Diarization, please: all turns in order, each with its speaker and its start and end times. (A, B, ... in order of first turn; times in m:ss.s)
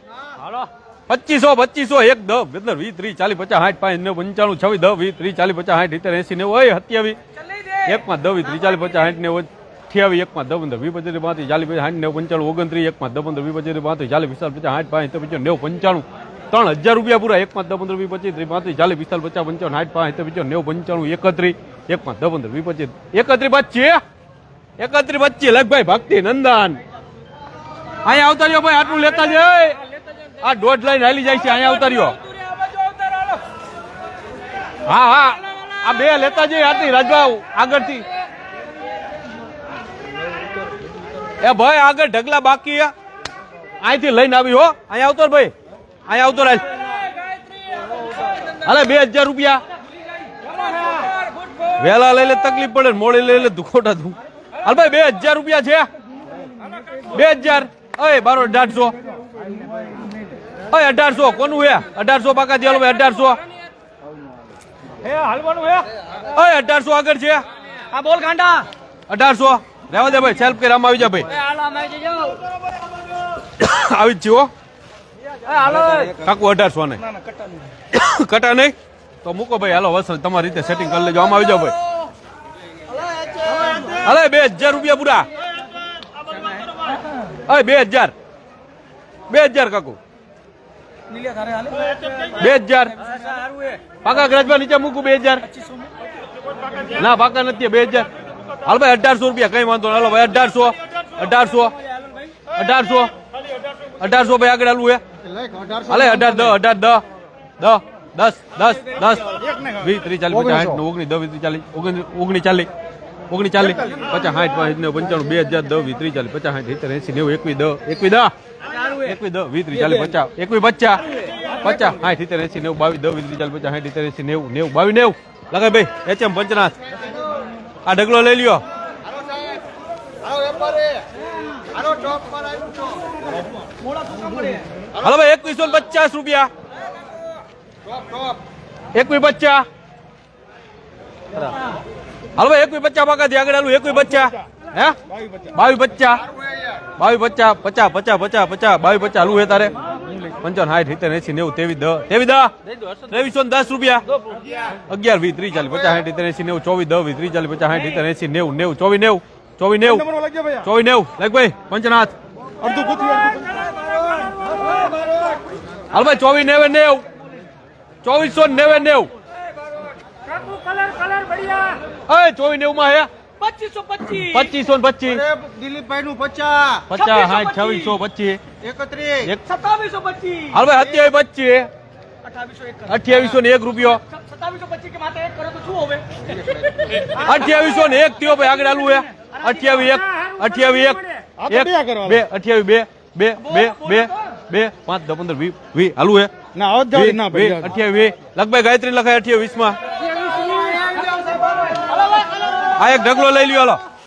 0:00.5-0:07.2 A
0:07.8-0:24.0 A
0:24.8-0:26.8 A
0:28.0-0:29.8 A
0:30.4-0:32.2 A
0:32.4-0:33.4 B
0:34.8-0:38.0 A
0:41.4-0:42.9 A
0:43.8-0:45.5 A
0:46.1-0:46.8 A
0:48.6-0:49.6 A
0:51.8-0:55.9 A
0:57.1-0:59.0 A
1:00.7-1:03.4 A
1:05.1-1:05.9 B
1:06.2-1:07.4 A
1:07.9-1:08.7 B
1:09.1-1:11.4 A
1:11.4-1:12.4 B
1:13.4-1:14.5 A
1:15.4-1:16.1 B
1:16.0-1:17.0 A
1:17.9-1:21.8 A
1:23.8-1:25.3 A
1:27.4-1:28.1 A
1:29.3-1:30.0 A
1:31.1-1:32.3 B
1:32.3-1:33.0 A
1:33.1-1:33.8 B
1:34.0-1:35.5 A
1:36.9-1:38.1 A
1:38.6-1:41.7 A
1:42.5-1:43.1 A
1:44.0-1:45.0 A
1:45.8-1:47.0 A
1:47.6-1:52.7 A
1:53.3-2:06.8 A
2:07.8-2:08.6 A
2:10.3-2:11.0 C
2:11.8-2:13.1 C
2:14.0-2:14.6 B
2:15.0-2:16.5 A
2:18.9-2:19.6 A
2:22.3-2:25.0 A
2:25.5-2:26.3 A
2:27.0-2:29.7 A
2:30.4-2:34.0 A
2:34.7-2:42.1 A
2:40.2-2:40.6 C
2:42.6-2:43.5 C
2:43.5-2:44.9 B
2:45.9-2:47.0 A
2:48.0-2:49.1 A
2:50.4-2:51.8 B
2:52.1-2:53.1 A
2:53.4-2:54.4 B
2:54.0-2:55.2 A
2:55.3-2:56.8 C
2:56.9-2:58.4 A
2:57.0-2:57.9 B
2:58.6-2:59.1 C
2:59.2-2:59.6 A
2:59.5-3:00.5 B
3:00.5-3:01.7 A
3:02.2-3:03.1 B
3:02.8-3:04.0 A
3:04.1-3:06.0 B
3:07.1-3:16.3 A
3:09.2-3:09.9 B
3:11.5-3:12.1 C
3:16.5-3:17.5 C
3:16.8-3:19.8 A
3:20.3-3:22.3 B
3:22.6-3:23.8 A